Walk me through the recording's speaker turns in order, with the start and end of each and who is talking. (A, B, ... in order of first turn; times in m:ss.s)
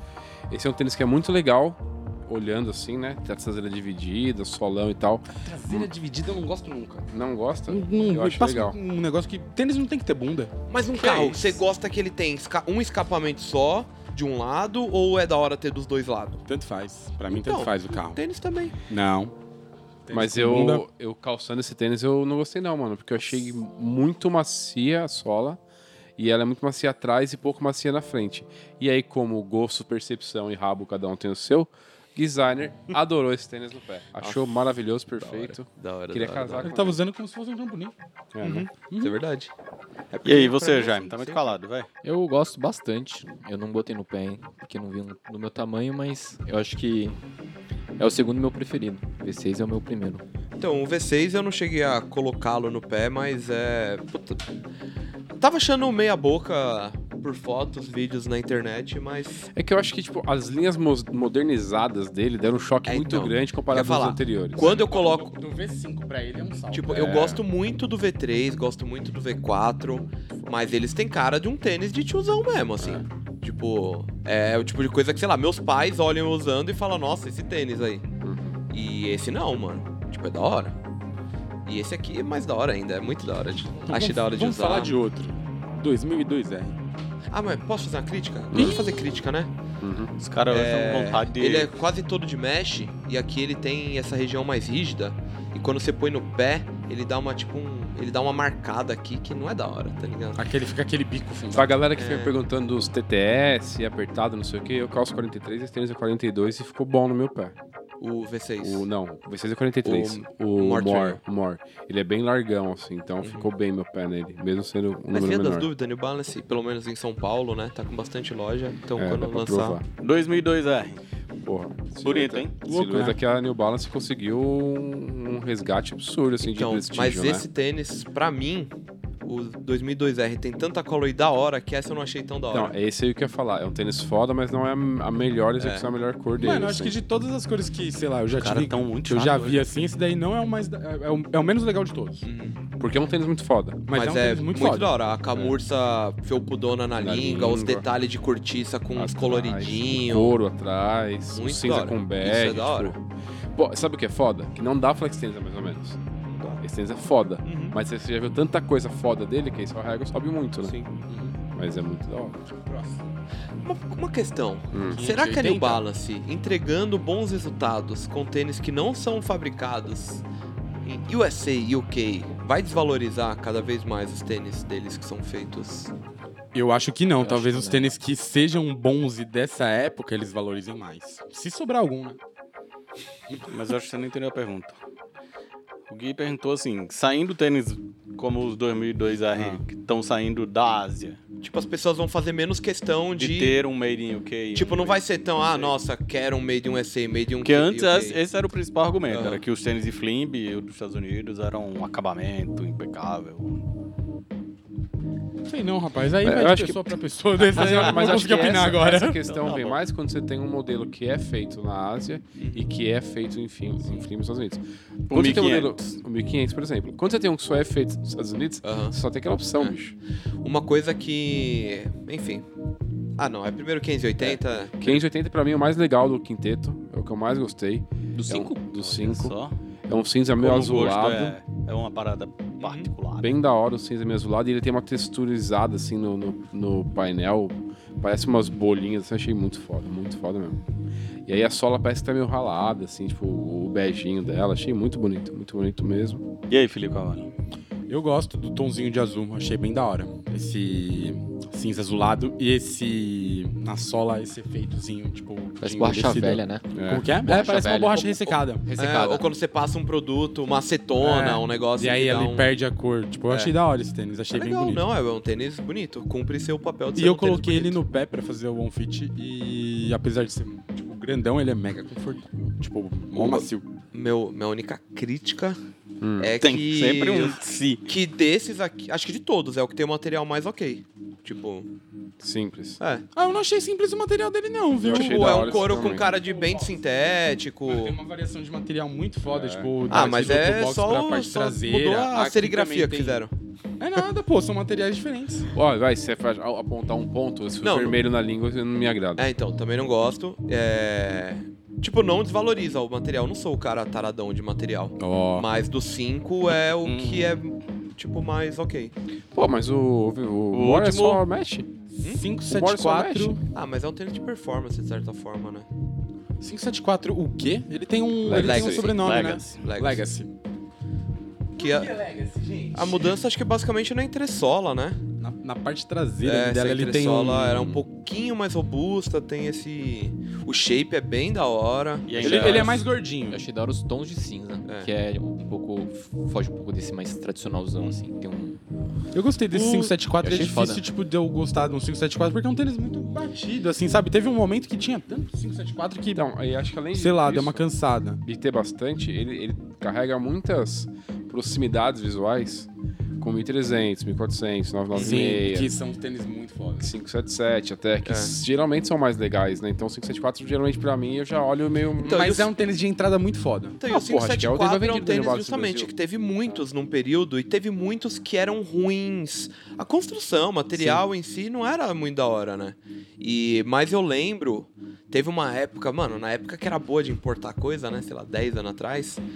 0:00.5-0:05.9 A
0:05.4-0:07.1 B
0:07.1-0:08.8 A
0:07.7-0:11.6 B
0:10.7-0:16.4 C
0:16.5-0:18.2 B
0:17.3-0:18.8 C
0:18.8-0:19.3 B
0:20.0-0:20.8 B
0:20.1-0:25.6 A
0:26.2-0:37.0 A
0:34.2-0:34.5 C
0:35.2-0:36.7 C
0:36.6-0:37.9 B
0:38.3-0:38.7 A
0:38.4-0:39.5 C
0:38.7-0:39.2 B
0:40.1-0:41.5 C
0:40.2-0:41.9 D
0:42.0-0:47.2 E
0:48.0-0:50.2 E
0:50.6-0:54.4 C
0:55.4-0:59.4 C
0:59.5-1:04.8 A
1:02.8-1:05.4 C
1:04.6-1:07.3 B
1:06.7-1:18.1 C
1:06.9-1:07.4 A
1:10.2-1:10.6 A
1:18.2-1:18.6 A
1:18.7-1:20.7 C
1:21.6-1:25.0 C
1:23.9-1:26.8 B
1:27.3-1:29.5 C
1:28.5-1:28.8 A
1:28.5-1:29.2 B
1:29.8-1:30.1 A
1:30.2-1:31.7 D
1:30.5-1:40.4 C
1:40.4-1:41.7 B
1:41.5-1:47.5 A
1:42.0-1:42.4 C
1:48.0-1:48.9 C
1:48.6-1:55.7 A
1:49.8-1:51.2 C
1:53.2-1:53.5 C
1:55.1-1:59.8 C
1:59.0-1:59.8 A
2:00.0-2:01.0 D
2:01.4-2:07.4 A
2:02.0-2:02.5 D
2:02.6-2:03.2 B
2:06.4-2:08.7 C
2:09.2-2:12.7 C
2:12.5-2:17.0 A
2:15.6-2:15.8 C
2:16.4-2:22.3 B
2:18.4-2:19.6 D
2:22.2-2:22.6 C
2:22.8-2:23.8 A
2:23.9-2:25.0 B
2:23.9-2:30.4 C
2:27.0-2:27.9 A
2:28.9-2:36.0 A
2:31.3-2:33.0 C
2:36.3-2:36.6 C
2:36.6-2:40.8 A
2:37.4-2:37.8 C
2:40.6-2:40.9 C
2:41.1-2:41.4 B
2:41.5-2:42.4 A
2:42.6-2:43.0 B
2:43.6-2:50.2 C
2:44.7-2:45.0 A
2:44.9-2:45.8 B
2:50.8-2:55.9 C
2:56.5-3:02.2 B
2:57.2-2:57.9 E
3:03.5-3:04.8 D
3:05.9-3:11.2 D
3:11.4-3:13.6 C
3:13.2-3:15.7 D
3:14.5-3:18.2 C
3:17.4-3:23.6 D
3:19.1-3:19.4 C
3:25.5-3:29.2 B
3:26.2-3:40.0 A
3:29.2-3:29.8 D
3:32.4-3:32.7 C
3:35.1-3:35.9 D
3:38.6-3:39.0 C
3:40.4-3:42.4 C
3:43.2-3:44.8 C
3:44.2-3:49.3 A
3:48.1-3:48.6 E
3:48.8-3:49.5 D
3:49.9-3:51.4 A
3:50.4-3:53.3 D
3:52.6-3:52.9 C
3:53.2-4:00.6 A
4:01.2-4:06.2 A
4:06.5-4:07.3 D
4:07.9-4:18.6 B
4:15.6-4:19.2 E
4:16.7-4:17.0 A
4:18.8-4:22.5 C
4:21.0-4:24.9 B
4:24.3-4:27.8 C
4:26.9-4:33.6 B
4:33.1-4:35.6 C
4:36.0-4:36.4 A
4:36.2-4:41.7 C
4:36.4-4:37.9 D
4:42.2-4:42.8 A
4:42.8-4:43.0 C
4:43.1-4:53.2 B
4:44.8-4:46.1 A
4:44.9-4:48.0 C
4:49.3-4:49.8 A
4:49.9-4:53.3 C
4:53.8-4:55.5 B
4:55.5-4:59.3 A
4:57.6-4:58.0 C
4:59.2-5:08.9 C
5:05.0-5:05.5 B
5:06.8-5:07.4 D
5:09.3-5:11.7 A
5:10.5-5:11.2 D
5:11.9-5:13.4 B
5:12.5-5:13.4 A
5:13.5-5:15.7 C
5:16.4-5:20.3 B
5:18.2-5:18.9 A
5:18.3-5:20.0 C
5:18.9-5:19.6 D
5:21.6-5:23.2 B
5:21.6-5:21.9 C
5:22.7-5:25.0 C
5:25.2-5:27.8 B
5:26.2-5:32.7 C
5:32.0-5:32.8 D
5:32.2-5:33.4 B
5:33.3-5:38.6 E
5:34.6-5:34.9 C
5:37.8-5:38.0 C
5:39.1-5:46.3 B
5:39.5-5:39.9 C
5:40.2-5:40.8 E
5:46.1-5:47.6 A
5:46.9-5:48.2 B
5:48.2-5:52.7 A
5:53.2-5:55.7 A
5:54.9-5:55.2 C
5:54.9-5:56.9 B
5:56.8-6:02.3 A
5:58.0-5:58.3 C
6:02.0-6:02.5 C
6:02.0-6:03.8 B
6:03.8-6:19.2 C
6:03.9-6:05.9 A